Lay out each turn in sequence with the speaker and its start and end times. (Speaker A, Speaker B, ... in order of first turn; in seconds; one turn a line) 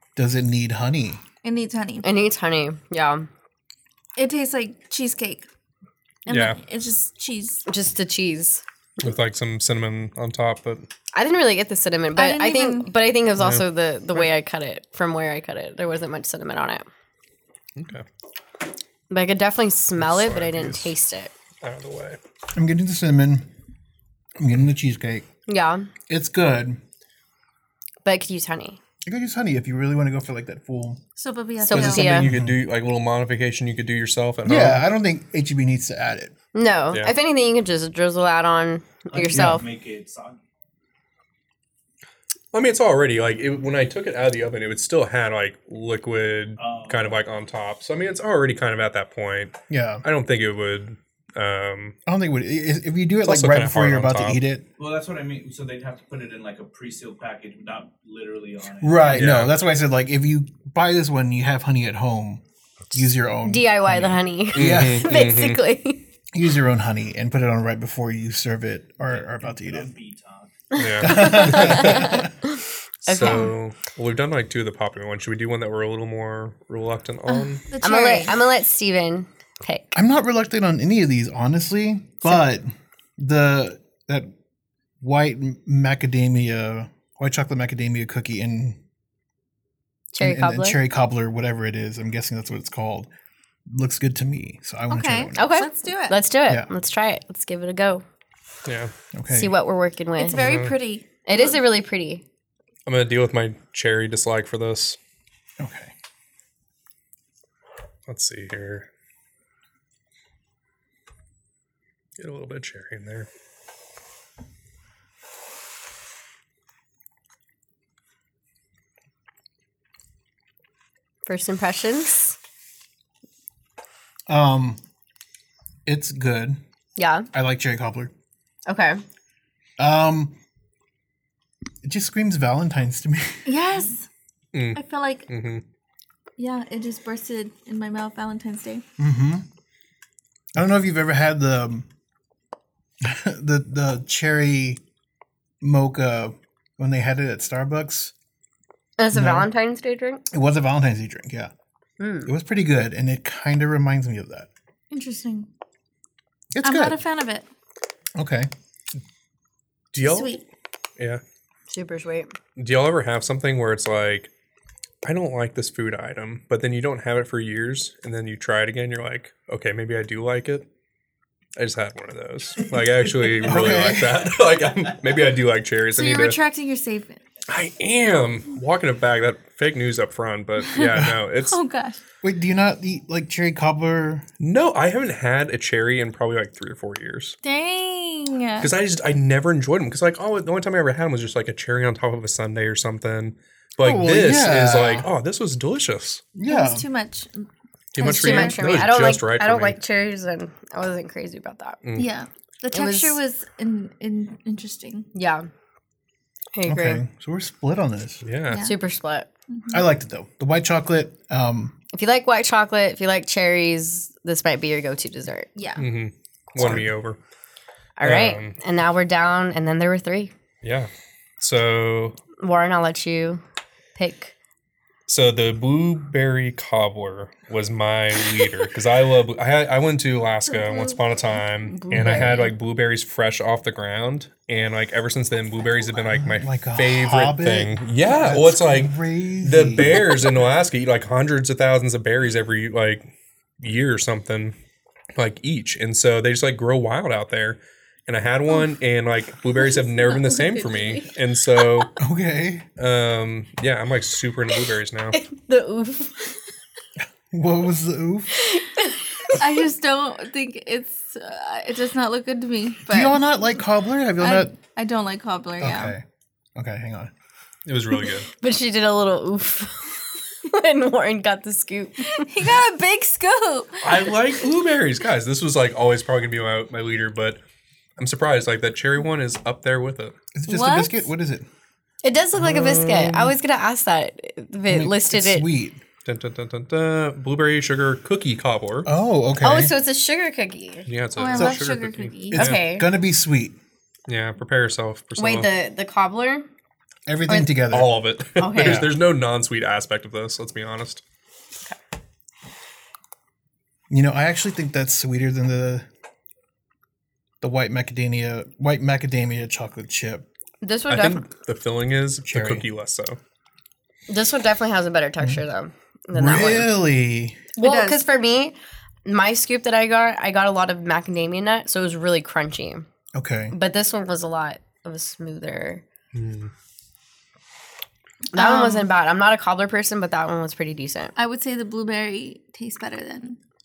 Speaker A: 0.1-1.2
Speaker B: 1.4-2.0
Speaker C: 2.0-3.3
Speaker B: 4.2-5.5
Speaker B: 6.2-7.6
Speaker D: 6.3-6.6
Speaker C: 7.7-8.6
Speaker D: 9.0-10.9
Speaker C: 11.1-16.9
Speaker B: 12.2-12.9
Speaker D: 13.4-13.6
Speaker D: 17.8-18.0
Speaker C: 19.1-21.3
Speaker D: 20.0-20.9
Speaker D: 21.6-22.2
Speaker A: 22.5-23.5
Speaker A: 24.4-25.2
Speaker C: 25.5-25.9
Speaker A: 26.1-26.8
Speaker C: 28.0-28.8
Speaker A: 29.0-31.0
Speaker B: 31.2-32.1
Speaker C: 31.6-32.3
Speaker A: 31.7-32.6
Speaker D: 31.7-34.8
Speaker A: 34.4-36.3
Speaker C: 36.5-39.6
Speaker E: 39.1-40.4
Speaker A: 39.3-39.6
Speaker D: 42.5-52.0
Speaker E: 46.6-47.2
Speaker A: 49.7-50.0
Speaker A: 52.0-54.6
Speaker D: 53.2-54.4
Speaker E: 54.8-59.1
Speaker A: 58.8-65.2
Speaker D: 59.1-59.5
Speaker C: 62.9-66.0
Speaker D: 64.5-65.6
Speaker A: 66.3-69.9
Speaker E: 69.1-70.8
Speaker D: 70.8-72.3
Speaker C: 70.8-72.5
Speaker A: 71.0-72.3
Speaker C: 73.0-73.5
Speaker D: 73.0-77.6
Speaker B: 77.3-78.3
Speaker C: 77.8-80.0
Speaker A: 79.9-84.3
Speaker A: 85.0-88.8
Speaker C: 90.1-90.8
Speaker A: 90.2-93.1
Speaker A: 93.7-95.4
Speaker B: 94.9-96.2
Speaker C: 95.3-98.0
Speaker D: 98.6-98.9
Speaker A: 99.1-99.6
Speaker C: 99.3-100.4
Speaker B: 100.2-101.6
Speaker D: 100.3-100.8
Speaker C: 101.2-102.2
Speaker D: 102.8-105.0
Speaker A: 105.6-105.9
Speaker D: 108.1-108.9
Speaker D: 112.2-113.3
Speaker C: 121.2-122.4
Speaker A: 124.3-124.8
Speaker A: 125.8-126.6
Speaker C: 127.0-127.3
Speaker A: 127.3-128.1
Speaker C: 128.7-129.0
Speaker A: 129.8-130.3
Speaker A: 131.8-133.5
Speaker B: 133.4-134.1
Speaker D: 134.5-135.6
Speaker B: 134.7-135.3
Speaker B: 136.4-138.8
Speaker A: 139.0-139.4
Speaker A: 140.5-141.9
Speaker A: 143.0-144.8
Speaker A: 145.6-148.1
Speaker C: 149.0-150.2
Speaker A: 149.1-149.5
Speaker A: 150.3-151.5
Speaker C: 152.0-152.3
Speaker A: 152.2-154.5
Speaker B: 154.9-155.5
Speaker A: 156.5-157.0
Speaker B: 156.6-157.4
Speaker A: 158.1-158.5
Speaker D: 159.9-160.3
Speaker B: 160.0-160.4
Speaker C: 161.7-162.3
Speaker D: 162.6-164.3
Speaker D: 165.0-170.7
Speaker D: 171.6-176.4
Speaker A: 173.4-174.3
Speaker B: 175.9-177.2
Speaker D: 177.5-181.6
Speaker B: 180.6-182.0
Speaker A: 182.2-184.2
Speaker D: 184.4-187.3
Speaker B: 187.4-188.7
Speaker D: 188.6-196.3
Speaker A: 193.8-195.1
Speaker A: 196.3-196.8
Speaker B: 196.4-197.5
Speaker D: 197.9-199.8
Speaker C: 198.0-201.8
Speaker B: 198.0-198.9
Speaker D: 201.8-202.1
Speaker B: 201.9-205.1
Speaker C: 202.7-203.2
Speaker C: 205.1-205.5
Speaker C: 206.5-207.0
Speaker A: 206.7-208.2
Speaker D: 208.2-208.7
Speaker B: 208.5-208.8
Speaker C: 208.6-209.3
Speaker B: 209.5-209.8
Speaker A: 209.7-211.7
Speaker C: 211.9-215.5
Speaker B: 215.6-215.9
Speaker D: 215.8-217.2
Speaker A: 216.6-216.9
Speaker C: 218.0-220.3
Speaker D: 218.0-218.5
Speaker D: 220.6-222.2
Speaker C: 222.4-223.4
Speaker C: 223.9-224.3
Speaker D: 225.1-244.6
Speaker C: 231.7-232.5
Speaker A: 236.1-240.2
Speaker D: 245.1-251.9
Speaker C: 249.9-251.1
Speaker A: 252.0-252.7
Speaker D: 252.8-255.2
Speaker C: 255.1-256.4
Speaker A: 257.3-258.3
Speaker C: 258.3-259.6
Speaker B: 259.3-263.2
Speaker A: 262.9-264.5
Speaker B: 264.2-265.9
Speaker A: 265.6-266.0
Speaker A: 266.6-267.1
Speaker D: 267.6-268.3
Speaker C: 268.3-272.3
Speaker B: 272.0-274.3
Speaker D: 273.8-277.4
Speaker D: 278.0-280.1
Speaker A: 280.3-281.5
Speaker B: 280.5-281.0
Speaker C: 282.0-285.4
Speaker D: 282.4-283.2
Speaker A: 282.7-283.3
Speaker A: 284.7-285.8
Speaker D: 286.0-288.9
Speaker A: 288.8-289.7
Speaker C: 289.4-290.9
Speaker D: 290.9-292.6
Speaker B: 291.2-292.4
Speaker A: 291.3-291.6
Speaker A: 292.3-293.6
Speaker C: 292.3-292.9
Speaker D: 294.1-295.5
Speaker C: 295.2-296.5
Speaker A: 297.1-298.0
Speaker C: 297.3-297.5
Speaker D: 297.7-301.0
Speaker C: 298.4-298.9
Speaker A: 298.5-298.9
Speaker A: 303.9-305.9
Speaker A: 307.4-310.3
Speaker C: 310.6-311.2
Speaker D: 310.9-313.2
Speaker A: 312.2-312.7
Speaker C: 314.1-316.8
Speaker A: 316.1-317.4
Speaker B: 317.6-318.0
Speaker C: 317.6-318.5
Speaker C: 319.1-322.9
Speaker A: 323.1-323.6
Speaker C: 323.5-325.8
Speaker D: 326.1-326.5
Speaker B: 328.3-328.9
Speaker C: 328.3-331.1
Speaker B: 331.1-333.4